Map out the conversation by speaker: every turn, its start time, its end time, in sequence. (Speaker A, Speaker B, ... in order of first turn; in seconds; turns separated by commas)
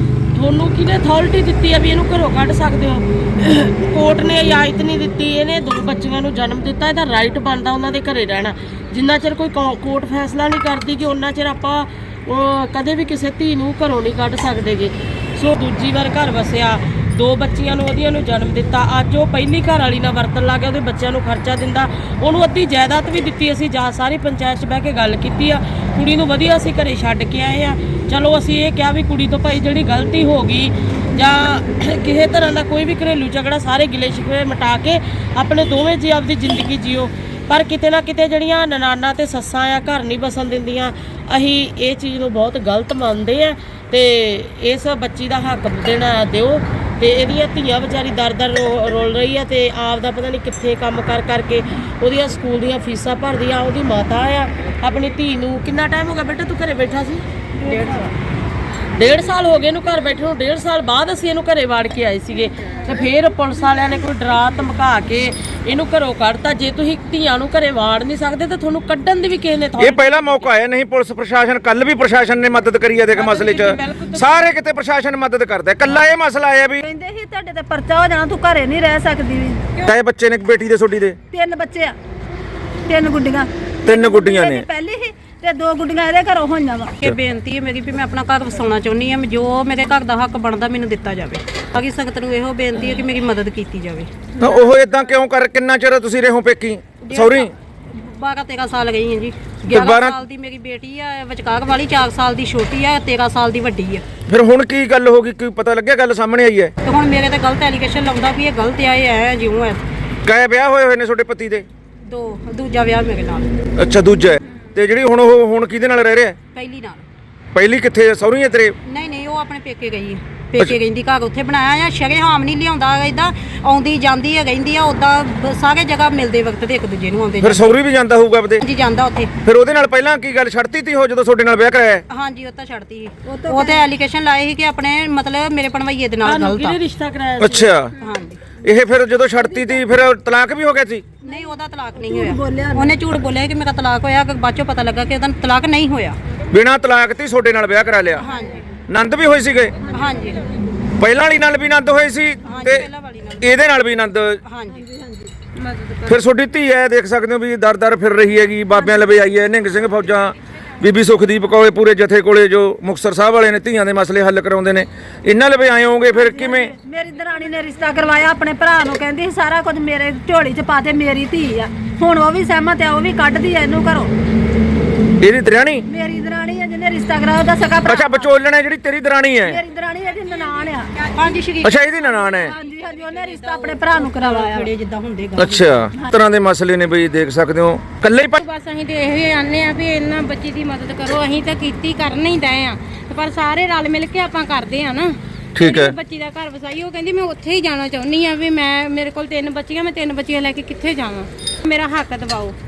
Speaker A: 0.3-58.0, Speaker B: 57.6-58.1, Speaker A: 59.0-70.5, Speaker C: 69.8-76.8, Speaker A: 73.1-74.5, Speaker B: 76.8-79.8, Speaker C: 79.8-81.2, Speaker B: 81.3-82.0, Speaker B: 82.9-87.0, Speaker C: 83.8-84.7, Speaker D: 87.0-94.1, Speaker C: 94.4-97.5, Speaker D: 97.0-104.0, Speaker C: 99.7-100.2, Speaker C: 104.3-106.7, Speaker D: 106.8-109.8, Speaker C: 110.2-111.7, Speaker D: 112.0-113.5, Speaker C: 113.8-116.4, Speaker D: 116.5-117.1, Speaker C: 117.5-118.8, Speaker D: 118.9-127.8, Speaker C: 127.4-128.6, Speaker D: 128.6-129.3, Speaker C: 129.4-132.0, Speaker D: 132.1-136.8, Speaker B: 133.3-133.9, Speaker A: 136.2-137.8, Speaker C: 137.4-137.9, Speaker D: 138.0-138.4, Speaker C: 138.6-141.1, Speaker B: 139.4-139.8, Speaker D: 141.2-146.2, Speaker B: 142.0-142.9, Speaker C: 146.5-148.2, Speaker D: 148.2-148.6, Speaker C: 148.9-149.8, Speaker D: 149.9-150.4, Speaker C: 151.0-152.9, Speaker D: 152.4-153.5, Speaker C: 153.4-154.4, Speaker D: 154.4-154.9, Speaker B: 154.9-155.3, Speaker E: 155.7-156.0, Speaker C: 156.1-166.7, Speaker B: 166.1-174.1, Speaker C: 175.2-175.8, Speaker B: 175.9-178.3, Speaker C: 177.9-179.6, Speaker B: 179.4-180.9, Speaker D: 181.1-181.8, Speaker C: 181.6-182.6, Speaker B: 182.0-184.7, Speaker D: 183.1-185.7, Speaker C: 185.4-188.4, Speaker E: 188.4-202.6, Speaker C: 195.6-196.0